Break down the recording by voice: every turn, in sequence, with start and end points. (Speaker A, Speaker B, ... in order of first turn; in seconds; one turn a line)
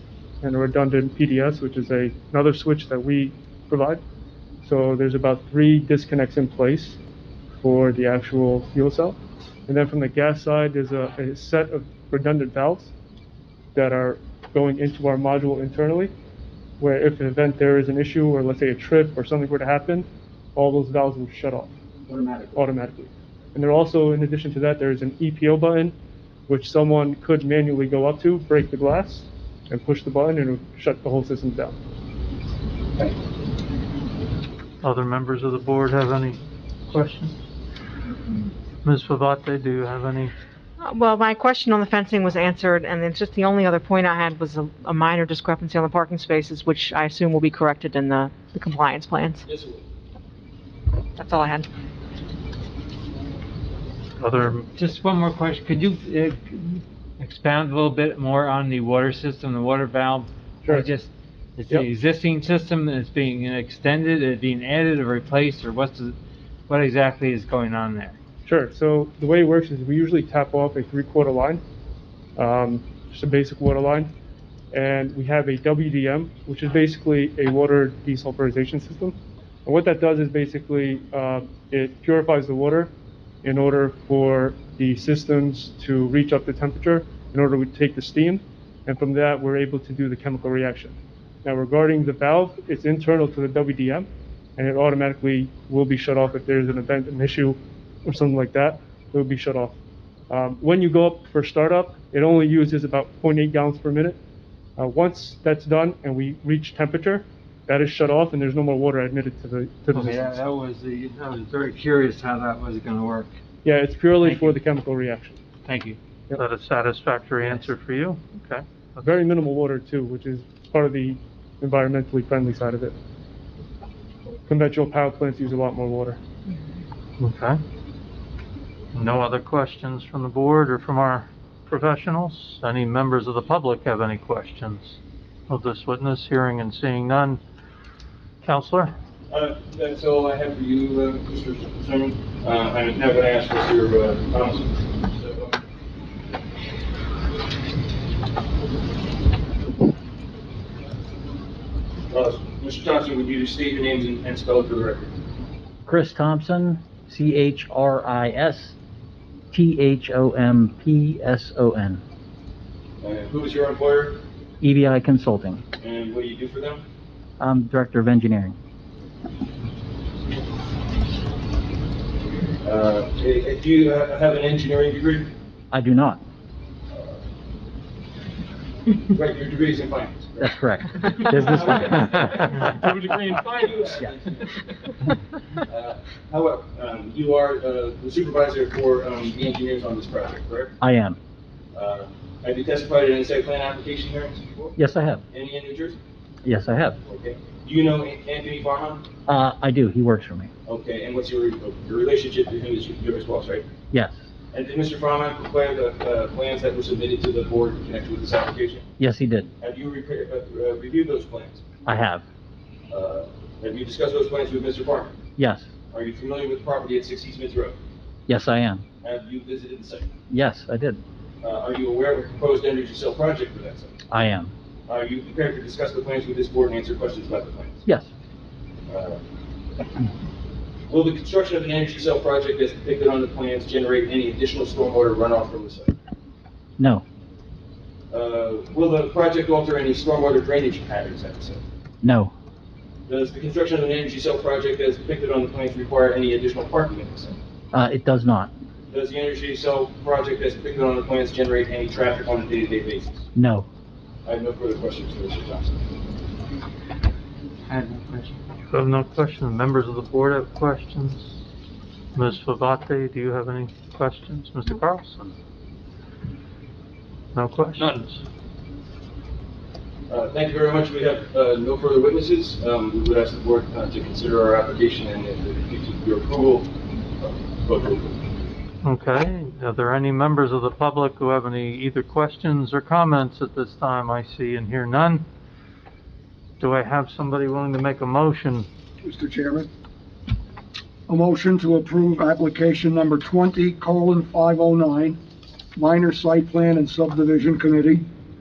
Speaker A: 0.4-4.0
Speaker A: 4.6-7.0
Speaker A: 7.6-12.9
Speaker A: 13.7-16.1
Speaker A: 16.8-21.8
Speaker B: 22.1-22.4
Speaker A: 22.5-25.9
Speaker A: 26.5-31.8
Speaker C: 34.8-37.4
Speaker C: 38.8-40.3
Speaker D: 40.8-49.4
Speaker E: 49.5-49.9
Speaker D: 51.2-51.7
Speaker C: 54.2-54.7
Speaker F: 54.8-66.2
Speaker A: 60.6-60.9
Speaker F: 66.7-68.2
Speaker A: 68.5-71.6
Speaker A: 72.4-74.1
Speaker A: 74.7-82.9
Speaker A: 83.4-99.8
Speaker A: 100.3-104.2
Speaker A: 104.8-110.4
Speaker F: 109.9-113.3
Speaker A: 113.6-115.4
Speaker F: 114.2-114.6
Speaker F: 115.7-116.0
Speaker C: 116.4-118.6
Speaker F: 117.4-117.7
Speaker A: 119.0-123.0
Speaker A: 124.5-126.2
Speaker C: 127.2-127.6
Speaker C: 128.9-135.0
Speaker C: 135.5-137.4
Speaker C: 138.4-138.9
Speaker E: 139.3-145.6
Speaker E: 152.1-155.1
Speaker B: 155.8-158.8
Speaker B: 159.5-162.0
Speaker E: 163.0-164.2
Speaker B: 164.6-165.6
Speaker E: 165.8-166.8
Speaker B: 167.4-168.6
Speaker E: 172.6-175.3
Speaker B: 175.7-176.2
Speaker E: 176.9-177.2
Speaker E: 179.1-184.6
Speaker B: 180.4-182.8
Speaker E: 185.7-190.8
Speaker B: 190.8-191.2
Speaker E: 191.7-194.7
Speaker B: 194.8-195.2
Speaker E: 195.3-196.0
Speaker B: 196.4-197.0
Speaker E: 197.0-199.1
Speaker B: 199.3-200.5
Speaker E: 200.7-203.7
Speaker E: 204.5-208.9
Speaker B: 209.0-209.5
Speaker E: 209.6-211.6
Speaker B: 211.9-212.2
Speaker E: 212.9-215.2
Speaker B: 215.4-215.7
Speaker E: 215.9-217.8
Speaker B: 218.3-218.8
Speaker E: 219.0-220.1
Speaker B: 220.3-221.0
Speaker E: 221.4-223.9
Speaker B: 224.1-224.5
Speaker E: 224.9-227.8
Speaker E: 228.9-229.2
Speaker E: 230.9-235.9
Speaker B: 236.8-237.0
Speaker E: 238.1-241.6
Speaker B: 242.0-242.3
Speaker E: 243.1-247.4
Speaker B: 247.7-248.5
Speaker E: 248.9-253.2
Speaker B: 253.3-253.7
Speaker E: 254.2-255.8
Speaker F: 257.7-258.4
Speaker C: 258.7-261.3
Speaker C: 262.1-265.4
Speaker C: 267.4-268.2
Speaker E: 270.1-278.2
Speaker C: 278.8-285.2
Speaker C: 286.6-288.7
Speaker G: 289.0-289.7
Speaker G: 291.1-295.2
Speaker G: 295.8-298.1